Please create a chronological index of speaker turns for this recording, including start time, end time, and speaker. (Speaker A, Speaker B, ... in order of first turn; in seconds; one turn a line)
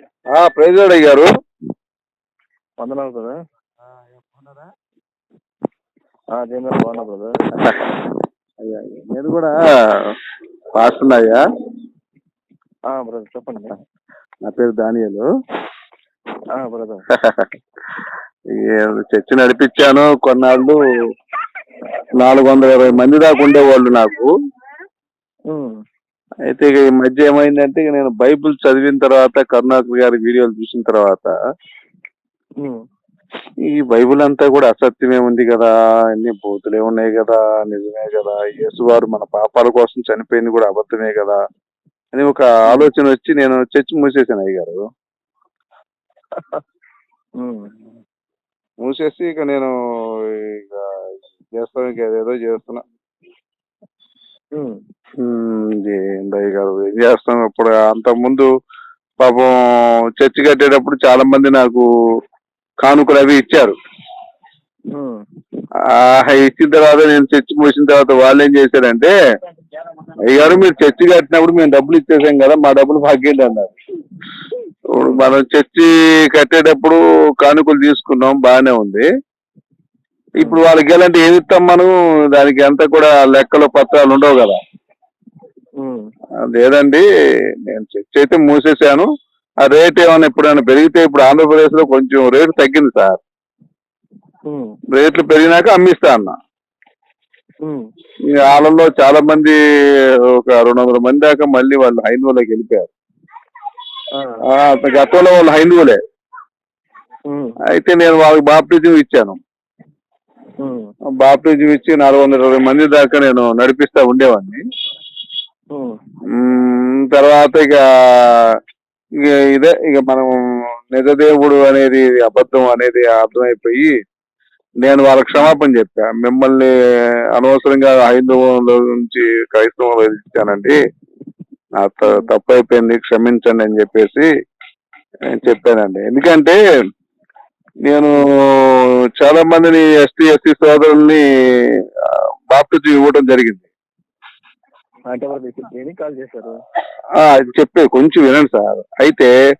Speaker A: 0.3-1.3
Speaker B: 2.8-3.3
Speaker A: 3.9-4.7
Speaker B: 6.4-7.4
Speaker A: 8.6-9.6
Speaker A: 10.8-11.4
Speaker B: 12.9-13.7
Speaker A: 14.4-15.2
Speaker B: 16.6-17.0
Speaker A: 17.1-17.5
Speaker A: 18.5-20.8
Speaker A: 22.2-24.3
Speaker B: 25.5-25.8
Speaker A: 26.5-31.3
Speaker A: 33.7-41.4
Speaker A: 42.1-44.8
Speaker B: 46.3-46.6
Speaker B: 47.4-47.7
Speaker A: 48.8-49.7
Speaker A: 50.5-50.8
Speaker A: 51.6-52.8
Speaker A: 55.2-58.5
Speaker A: 59.2-59.5
Speaker A: 60.2-61.9
Speaker A: 62.8-63.7
Speaker B: 64.9-65.2
Speaker A: 65.9-69.1
Speaker A: 70.3-73.7
Speaker A: 74.9-79.0
Speaker B: 75.0-75.3
Speaker A: 80.4-84.6
Speaker B: 85.8-86.1
Speaker A: 86.5-87.0
Speaker A: 87.7-89.1
Speaker A: 89.6-93.2
Speaker B: 94.5-94.8
Speaker A: 94.9-96.3
Speaker A: 98.3-99.6
Speaker A: 100.3-102.9
Speaker B: 104.1-104.4
Speaker A: 104.5-106.0
Speaker B: 107.3-107.5
Speaker A: 107.7-109.4
Speaker B: 110.6-110.9
Speaker A: 111.1-114.6
Speaker A: 116.3-118.4
Speaker A: 119.2-120.3
Speaker A: 120.9-123.9
Speaker A: 124.8-126.7
Speaker A: 127.3-130.8
Speaker A: 131.8-134.3
Speaker B: 132.0-132.3
Speaker A: 135.3-136.6
Speaker A: 137.9-141.2
Speaker A: 142.0-143.7
Speaker B: 145.1-146.6
Speaker A: 147.2-149.3